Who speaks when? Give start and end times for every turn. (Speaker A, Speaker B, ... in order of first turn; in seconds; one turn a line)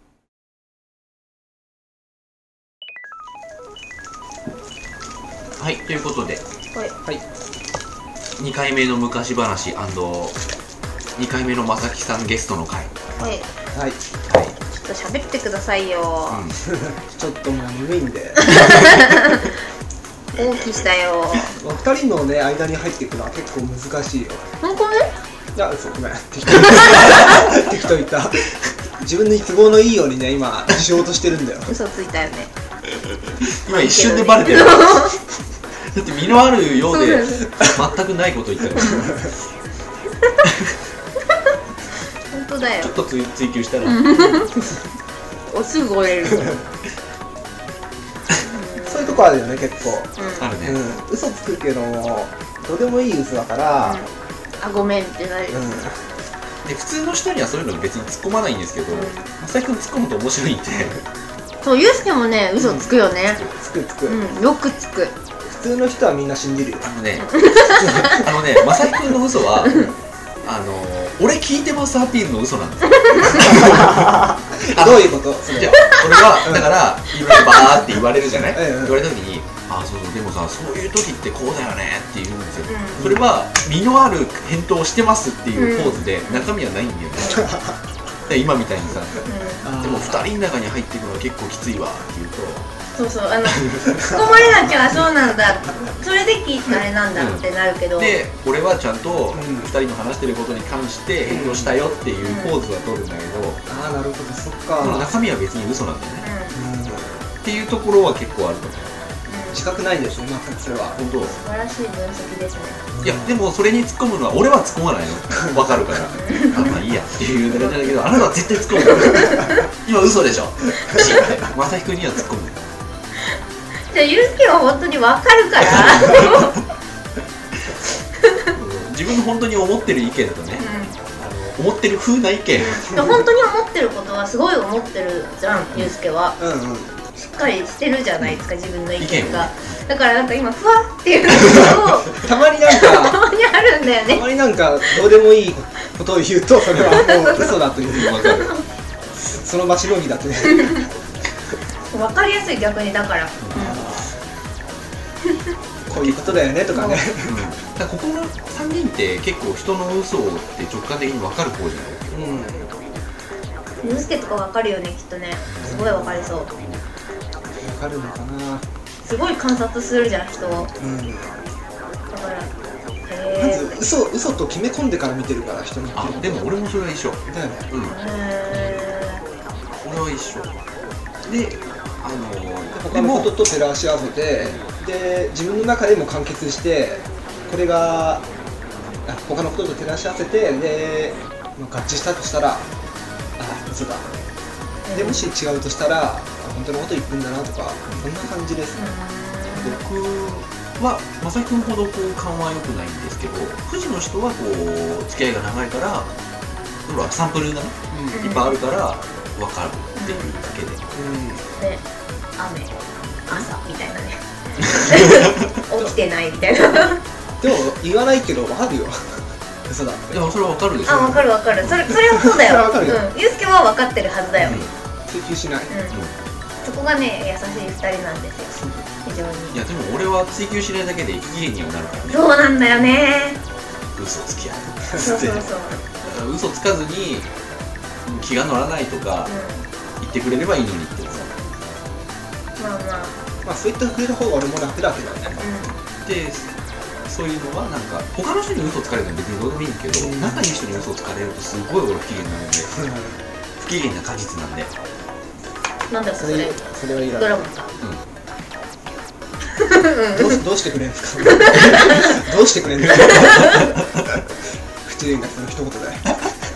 Speaker A: 5.6-6.4
Speaker A: 8.4-10.4
Speaker A: 11.2-12.9
Speaker B: 13.2-13.5
Speaker C: 13.7-14.0
Speaker A: 14.3-14.5
Speaker B: 14.7-16.4
Speaker A: 16.3-16.6
Speaker C: 16.7-19.1
Speaker B: 18.4-19.6
Speaker B: 20.3-21.6
Speaker C: 21.6-24.4
Speaker B: 24.6-25.2
Speaker C: 25.5-31.7
Speaker B: 31.7-32.5
Speaker A: 33.4-35.2
Speaker B: 33.7-35.2
Speaker A: 35.9-39.1
Speaker B: 36.8-37.6
Speaker B: 38.7-39.1
Speaker C: 38.8-39.3
Speaker A: 40.4-40.7
Speaker B: 42.3-42.9
Speaker A: 42.8-44.4
Speaker B: 43.8-44.5
Speaker B: 45.5-46.6
Speaker B: 48.4-49.3
Speaker C: 48.8-54.0
Speaker B: 50.1-50.5
Speaker A: 50.4-50.8
Speaker B: 53.8-55.6
Speaker C: 55.5-56.0
Speaker A: 56.6-61.0
Speaker B: 58.9-59.3
Speaker B: 61.6-63.4
Speaker C: 62.6-62.9
Speaker C: 63.5-64.2
Speaker B: 64.1-65.1
Speaker C: 65.4-66.9
Speaker A: 66.8-67.3
Speaker B: 67.2-68.3
Speaker C: 67.8-68.1
Speaker A: 67.9-69.9
Speaker B: 69.6-70.0
Speaker A: 70.4-74.0
Speaker B: 72.9-73.6
Speaker C: 73.3-76.7
Speaker A: 74.6-87.5
Speaker B: 75.7-76.4
Speaker B: 77.2-77.8
Speaker C: 78.3-79.1
Speaker B: 82.7-83.1
Speaker B: 85.5-86.5
Speaker B: 87.2-87.5
Speaker C: 87.4-87.8
Speaker A: 88.2-92.7
Speaker B: 89.2-89.6
Speaker C: 89.6-90.3
Speaker B: 92.9-98.1
Speaker A: 93.5-93.9
Speaker A: 97.1-97.4
Speaker A: 98.0-103.6
Speaker C: 99.3-99.7
Speaker C: 101.2-101.8
Speaker B: 102.2-102.6
Speaker C: 103.7-105.1
Speaker A: 104.8-106.3
Speaker B: 106.2-106.6
Speaker C: 106.5-107.3
Speaker A: 107.4-109.0
Speaker B: 109.2-109.6
Speaker C: 109.5-111.0
Speaker A: 110.9-111.3
Speaker B: 111.3-112.8
Speaker C: 113.0-113.3
Speaker A: 113.0-122.6
Speaker B: 116.1-116.7
Speaker B: 119.1-119.6
Speaker B: 123.9-126.6
Speaker A: 125.7-126.5
Speaker B: 128.2-128.5
Speaker A: 128.5-132.9
Speaker B: 130.6-130.9
Speaker B: 132.6-136.4
Speaker C: 136.4-137.0
Speaker B: 137.1-144.2
Speaker A: 139.0-139.8
Speaker C: 142.1-143.3
Speaker C: 144.1-148.2
Speaker B: 146.9-147.5
Speaker A: 147.3-148.6
Speaker B: 148.1-148.6
Speaker C: 149.2-150.9
Speaker B: 150.5-150.8
Speaker B: 151.9-153.8
Speaker A: 153.4-153.8
Speaker C: 153.5-154.1
Speaker C: 155.9-157.4
Speaker A: 155.9-156.4
Speaker B: 156.7-157.0
Speaker A: 157.2-162.3
Speaker C: 162.1-162.7
Speaker B: 163.8-166.5
Speaker A: 165.5-165.8
Speaker C: 165.6-166.3
Speaker A: 166.6-166.8
Speaker C: 167.6-168.6
Speaker B: 169.0-170.7
Speaker C: 170.4-171.4
Speaker B: 172.1-172.5
Speaker B: 173.1-173.8
Speaker C: 173.4-176.5
Speaker A: 175.9-177.9
Speaker C: 177.3-177.7
Speaker B: 177.9-179.2
Speaker A: 178.5-178.9
Speaker A: 179.8-180.6
Speaker A: 181.2-183.3
Speaker C: 182.7-188.2
Speaker C: 189.0-192.7
Speaker C: 193.4-194.1
Speaker B: 194.8-195.3
Speaker C: 194.9-198.8
Speaker B: 198.7-199.8
Speaker A: 199.5-206.1
Speaker A: 206.8-210.8
Speaker C: 207.9-208.2
Speaker B: 208.1-208.5
Speaker B: 209.9-210.3
Speaker C: 210.9-211.5
Speaker B: 211.6-211.8
Speaker B: 212.4-217.0
Speaker C: 217.4-220.3
Speaker A: 220.1-221.9
Speaker B: 220.8-224.6
Speaker C: 222.0-223.1
Speaker C: 224.4-225.7
Speaker A: 224.4-224.7
Speaker B: 225.7-226.0
Speaker B: 226.6-229.6
Speaker A: 229.5-232.2
Speaker B: 232.1-233.4
Speaker A: 233.9-237.3
Speaker B: 234.9-235.8
Speaker A: 238.1-239.3
Speaker B: 239.3-239.7
Speaker A: 240.0-241.3
Speaker B: 242.6-243.2
Speaker C: 243.4-245.4
Speaker B: 245.4-245.8
Speaker A: 246.0-246.5
Speaker A: 247.0-252.7
Speaker C: 249.9-250.4
Speaker C: 252.8-253.2
Speaker A: 253.6-254.7
Speaker B: 255.9-257.7
Speaker C: 256.2-257.4
Speaker B: 259.6-260.3
Speaker C: 260.1-263.8
Speaker B: 261.3-262.2
Speaker A: 261.5-261.8
Speaker A: 263.0-263.6
Speaker B: 263.1-263.7
Speaker C: 264.8-266.3